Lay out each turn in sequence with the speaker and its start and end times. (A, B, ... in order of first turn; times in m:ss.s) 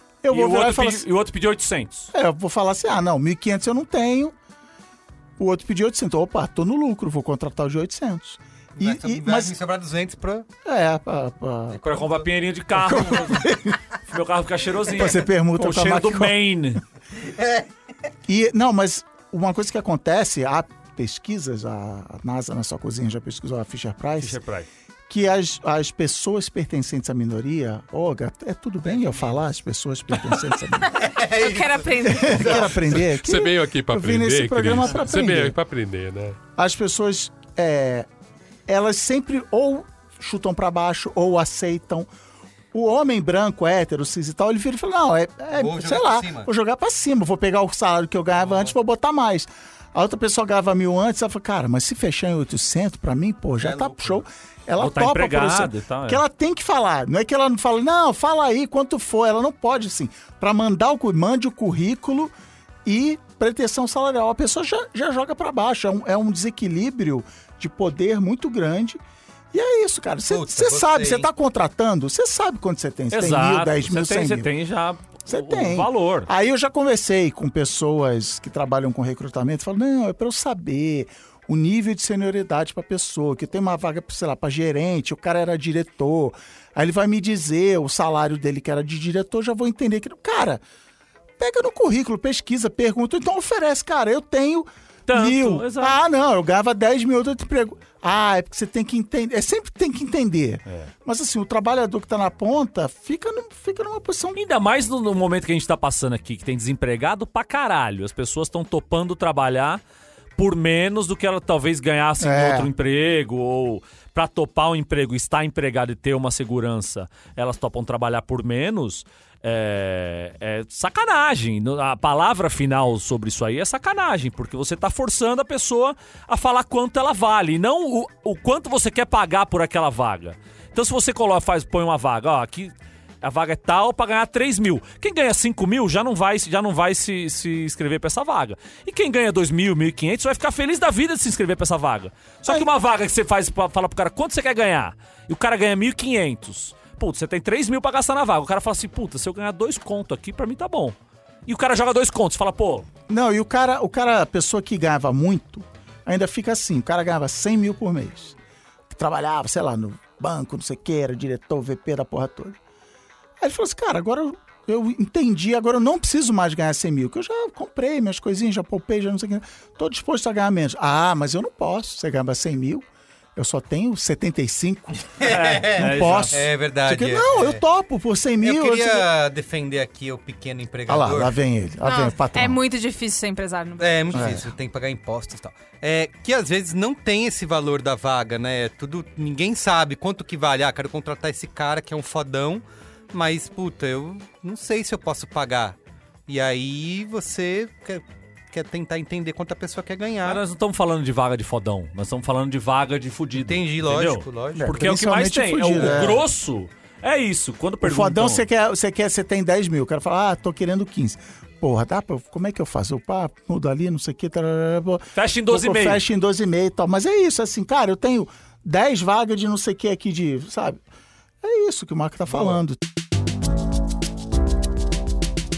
0:00.2-0:01.1 A
0:00.3-0:02.1 B
0:02.1-0:04.3 A
0:05.4-0:09.5 A
0:08.8-0:10.5 C
0:10.6-0:11.8 A
0:11.7-0:12.2 C
0:11.8-0:13.5 B
0:12.7-0:13.8 A
0:14.0-0:16.8 B
0:14.9-0:16.4 A
0:17.2-0:17.7 C
0:18.3-0:24.4 A
0:24.2-0:24.7 B
0:25.1-0:31.0 A
0:28.9-0:29.3 C
0:30.9-0:32.9 C
0:31.1-0:32.7 D
0:32.0-0:35.5 A
0:33.0-0:36.4 E
0:36.6-0:38.1 A
0:38.7-0:42.1 A
0:42.7-1:02.3 A
0:45.5-0:46.5 C
0:48.5-0:48.7 C
0:53.6-0:54.2 C
0:54.8-0:56.2 B
1:02.8-1:09.0 A
1:09.5-1:14.5 A
1:10.3-1:11.3 C
1:13.1-1:16.3 B
1:15.3-1:30.6 A
1:31.4-1:44.4 A
1:35.1-1:36.0 B
1:44.3-1:49.8 B
1:50.4-2:32.9 B
1:52.2-1:52.7 A
2:33.1-2:38.3 A
2:38.9-2:42.6 A
2:43.4-2:59.1 A
2:55.2-2:57.6 C
2:55.2-2:56.4 B
2:58.4-3:01.3 C
3:00.9-3:02.6 A
3:01.8-3:04.3 D
3:03.8-3:15.8 C
3:04.1-3:04.5 A
3:16.3-3:20.4 C
3:20.2-3:28.4 B
3:23.4-3:24.7 C
3:24.5-3:26.2 A
3:27.8-3:40.8 A
3:35.1-3:36.0 B
3:41.4-3:42.8 A